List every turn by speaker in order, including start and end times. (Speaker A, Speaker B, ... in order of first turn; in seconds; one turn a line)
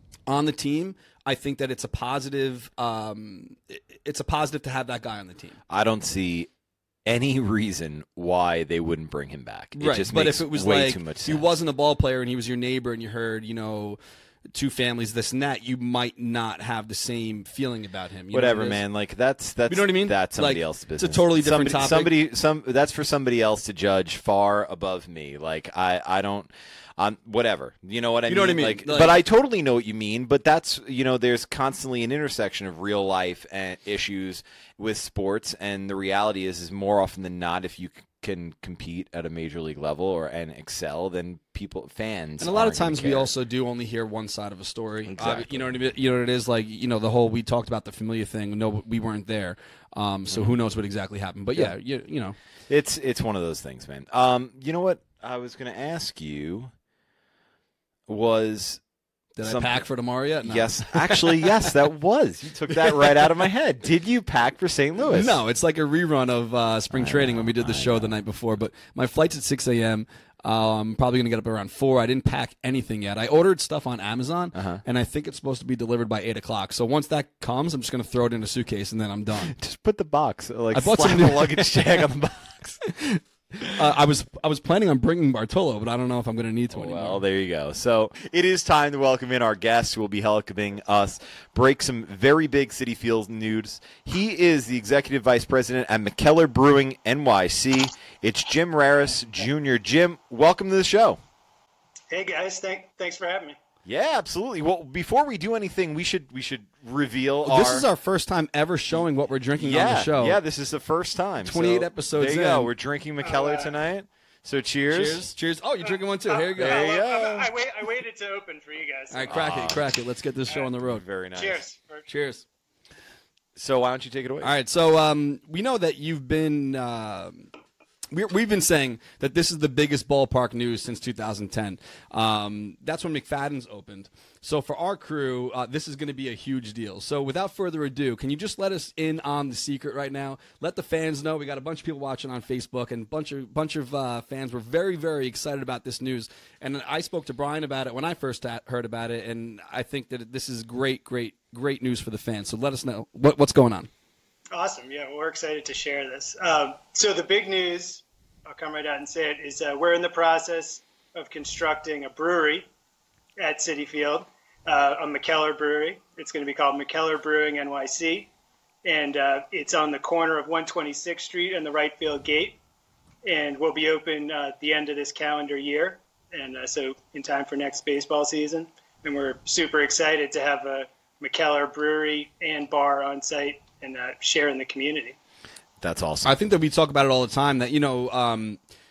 Speaker A: 0.3-5.6
Speaker B: 5.7-6.5
Speaker B: 7.0-11.6
Speaker A: 9.7-14.0
Speaker A: 14.5-18.8
Speaker B: 18.3-43.3
Speaker A: 19.7-22.1
Speaker A: 28.3-29.2
Speaker A: 42.4-52.4
Speaker B: 45.1-45.8
Speaker B: 52.7-56.7
Speaker B: 58.1-58.8
Speaker A: 59.4-61.6
Speaker B: 59.4-59.8
Speaker B: 60.4-65.4
Speaker A: 62.8-63.3
Speaker A: 65.1-79.5
Speaker B: 66.9-68.2
Speaker B: 74.5-74.8
Speaker B: 79.5-82.8
Speaker A: 80.7-82.0
Speaker A: 83.0-87.2
Speaker B: 86.7-101.2
Speaker C: 102.1-103.5
Speaker B: 103.8-107.9
Speaker A: 107.5-110.4
Speaker B: 109.6-115.3
Speaker A: 111.4-112.7
Speaker C: 113.2-113.8
Speaker A: 114.9-116.8
Speaker C: 115.8-119.3
Speaker B: 116.6-117.5
Speaker A: 119.1-121.0
Speaker B: 119.3-119.9
Speaker B: 120.8-121.6
Speaker C: 121.3-122.0
Speaker A: 122.1-122.4
Speaker B: 123.5-124.5
Speaker A: 124.4-127.5
Speaker A: 128.1-153.9
Speaker C: 154.5-162.7
Speaker C: 163.4-168.3
Speaker C: 168.8-172.6
Speaker C: 173.2-185.2
Speaker B: 185.8-186.4
Speaker A: 186.2-188.6